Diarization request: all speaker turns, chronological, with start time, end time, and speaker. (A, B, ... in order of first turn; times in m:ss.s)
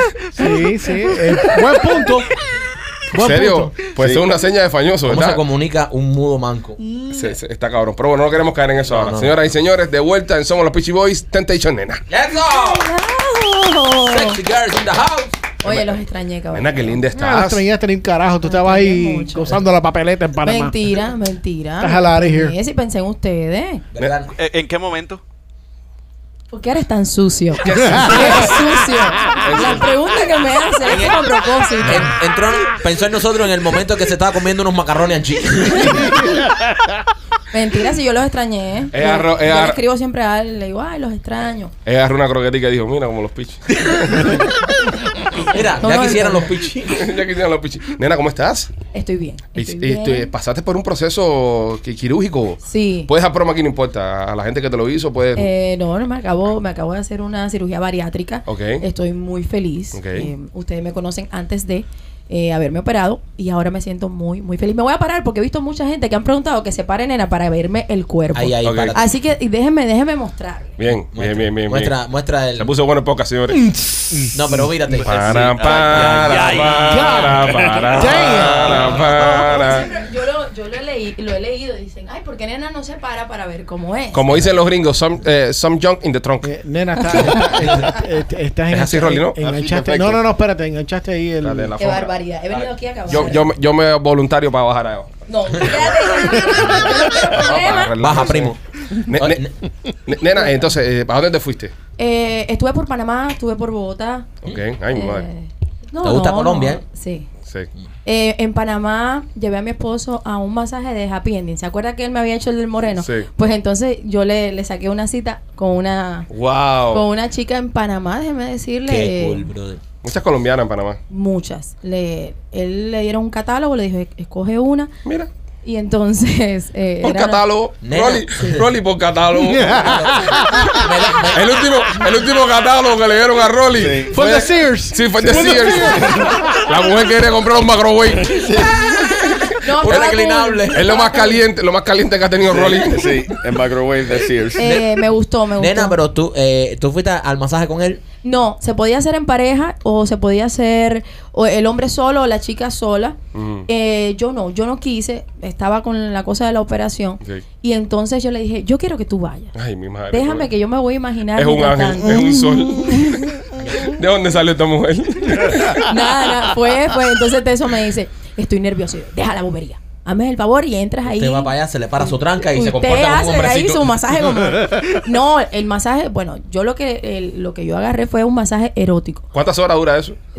0:00.4-0:02.3 A
0:03.1-0:03.9 A
0:03.2-0:05.4 B
0:05.1-0:06.8 C
0:06.8-0:07.2 A
0:07.1-0:12.0 B
0:08.8-0:09.4 C
0:12.1-0:12.9 C
0:12.5-0:14.4 D
0:14.0-0:15.4 C
0:15.6-0:17.0 D
0:15.6-0:17.6 B
0:17.1-0:20.8 A
0:18.4-0:19.6 D
0:20.4-0:23.8 D
0:21.8-0:22.6 A
0:23.9-0:24.3 C
0:24.4-0:25.2 E
0:26.5-0:32.1 D
0:27.7-0:28.3 A
0:27.7-0:28.6 B
0:29.4-0:29.9 B
0:30.8-0:31.2 C
0:31.8-0:36.3 C
0:37.5-0:41.7 D
0:38.9-0:39.8 B
0:41.8-0:44.4 B
0:45.4-0:47.1 C
0:45.8-0:46.6 D
0:46.9-0:48.7 B
0:48.9-0:50.3 D
0:49.6-0:55.5 B
0:52.7-0:53.1 D
0:55.4-1:10.7 D
0:58.5-0:58.8 B
0:59.9-1:00.3 B
1:08.4-1:09.0 C
1:08.6-1:09.0 B
1:10.8-1:11.9 B
1:11.1-1:12.8 C
1:12.6-1:13.8 B
1:13.5-1:14.6 A
1:14.3-1:17.5 C
1:15.0-1:19.9 B
1:15.2-1:17.4 E
1:16.9-1:19.4 A
1:19.4-1:24.3 D
1:24.1-1:26.6 B
1:26.4-1:31.7 A
1:27.4-1:27.8 C
1:28.7-1:29.4 B
1:29.4-1:30.2 F
1:31.4-1:32.1 B
1:31.8-1:33.4 D
1:33.1-1:33.4 C
1:33.1-1:35.1 B
1:35.3-1:38.2 D
1:36.6-1:36.9 C
1:37.2-1:39.4 B
1:38.0-1:38.6 C
1:39.2-1:39.5 C
1:40.1-1:41.7 B
1:42.0-1:44.3 D
1:44.4-1:45.3 B
1:44.9-1:47.3 D
1:46.0-1:46.8 C
1:48.0-1:56.3 D
1:53.0-1:53.3 B
1:56.3-1:57.1 B
1:56.9-1:59.5 D
1:58.9-1:59.8 C
2:00.0-2:01.0 B
2:01.1-2:04.9 D
2:05.0-2:05.3 B
2:05.6-2:07.4 D
2:07.0-2:10.3 B
2:07.8-2:08.7 C
2:09.4-2:10.9 A
2:10.8-2:11.4 C
2:11.3-2:18.6 B
2:13.8-2:14.2 F
2:14.1-2:16.7 A
2:15.2-2:16.1 F
2:18.2-2:18.9 F
2:19.6-2:21.4 D
2:19.8-2:21.1 C
2:20.7-2:23.2 B
2:22.5-2:24.8 F
2:24.6-2:25.0 C
2:24.6-2:26.0 D
2:25.6-2:28.0 C
2:28.2-2:33.2 D
2:33.3-2:33.7 B
2:33.7-2:39.5 D
2:39.5-2:40.5 B
2:40.1-2:42.2 D
2:41.4-2:45.9 B
2:42.2-2:42.9 A
2:42.9-2:43.2 D
2:45.8-2:59.3 D
2:51.0-2:53.9 C
2:59.3-3:00.2 B